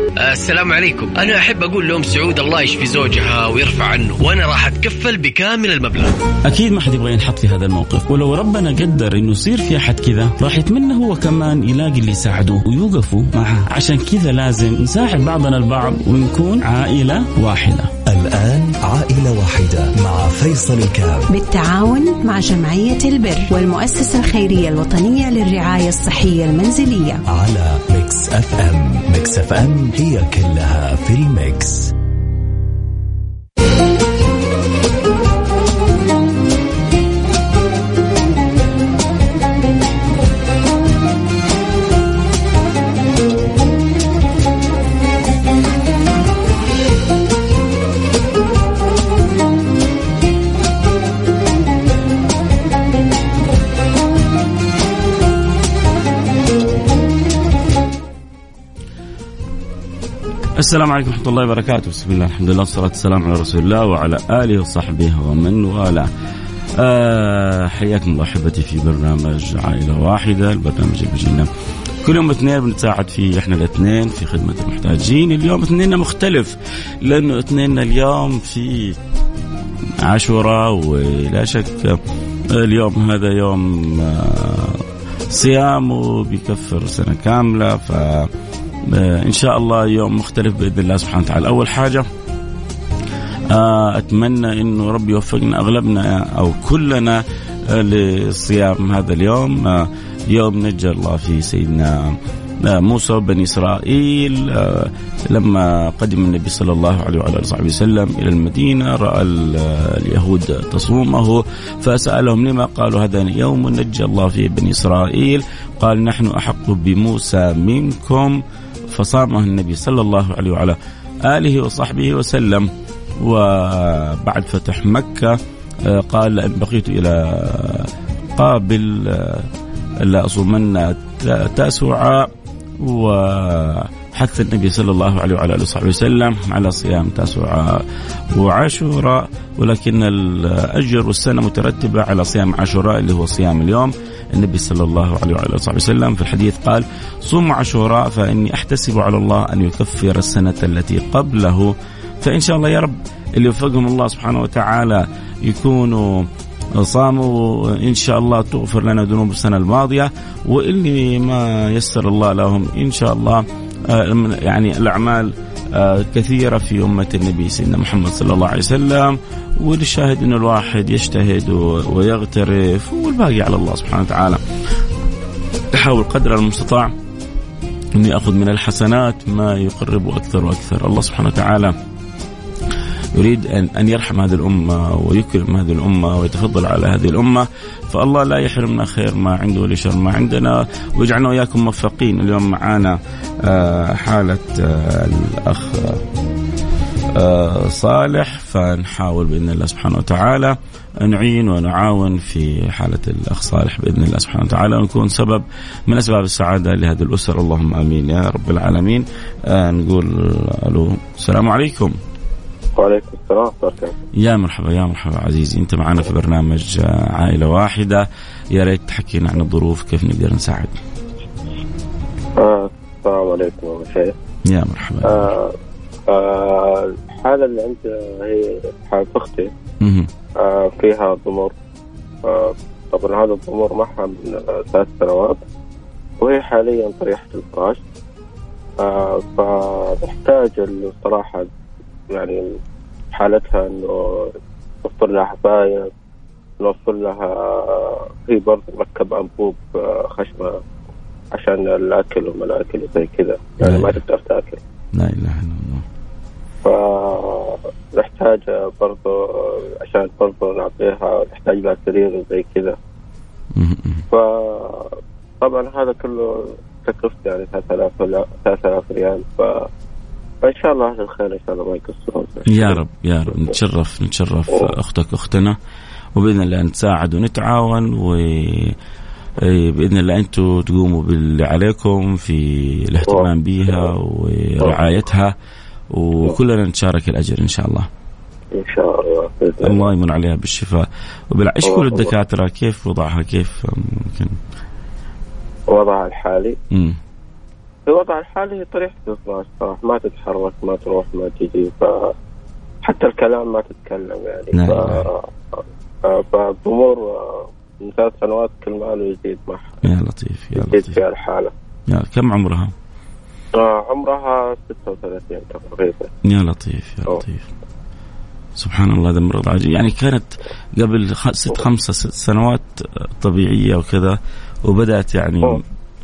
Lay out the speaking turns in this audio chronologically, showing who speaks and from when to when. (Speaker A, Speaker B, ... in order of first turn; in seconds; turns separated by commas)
Speaker A: 0.2-6.1, Speaker B: 6.4-17.9, Speaker C: 18.1-21.3, Speaker D: 21.3-27.2, Speaker C: 27.3-31.9, Speaker B: 60.6-66.1, Speaker B: 66.8-71.5, Speaker B: 72.0-79.0, Speaker B: 80.0-82.0, Speaker B: 82.5-88.3, Speaker B: 88.8-92.1, Speaker B: 93.5-122.7, Speaker B: 123.2-129.5, Speaker B: 130.0-132.3, Speaker B: 132.8-174.4, Speaker B: 175.7-176.9, Speaker B: 177.9-181.7, Speaker B: 183.1-196.0, Speaker B: 197.1-211.9, Speaker E: 212.8-214.0, Speaker B: 214.2-220.8, Speaker E: 222.4-224.1, Speaker B: 224.4-225.3, Speaker E: 225.0-225.5, Speaker E: 226.1-229.5, Speaker B: 229.8-230.1, Speaker E: 230.4-231.5, Speaker E: 232.2-235.4, Speaker E: 236.2-237.8, Speaker E: 238.8-241.5, Speaker E: 242.1-242.4, Speaker E: 243.1-245.9, Speaker E: 246.6-250.6, Speaker E: 251.3-254.6, Speaker B: 253.6-253.9, Speaker B: 254.9-255.8, Speaker E: 256.6-262.8, Speaker B: 263.5-264.0, Speaker E: 264.1-269.7, Speaker E: 270.4-272.8, Speaker B: 272.5-275.6, Speaker B: 276.1-278.8, Speaker B: 279.4-285.3, Speaker E: 283.1-283.9, Speaker B: 285.9-287.9, Speaker E: 288.5-289.9, Speaker B: 289.6-294.4, Speaker E: 291.6-292.1, Speaker E: 295.7-296.6, Speaker B: 296.7-297.0, Speaker E: 297.9-302.1, Speaker E: 302.8-309.8, Speaker B: 304.5-305.0, Speaker B: 309.8-311.0, Speaker E: 310.6-311.5, Speaker B: 311.9-312.7, Speaker E: 313.6-316.1, Speaker B: 316.2-317.5, Speaker B: 318.6-325.6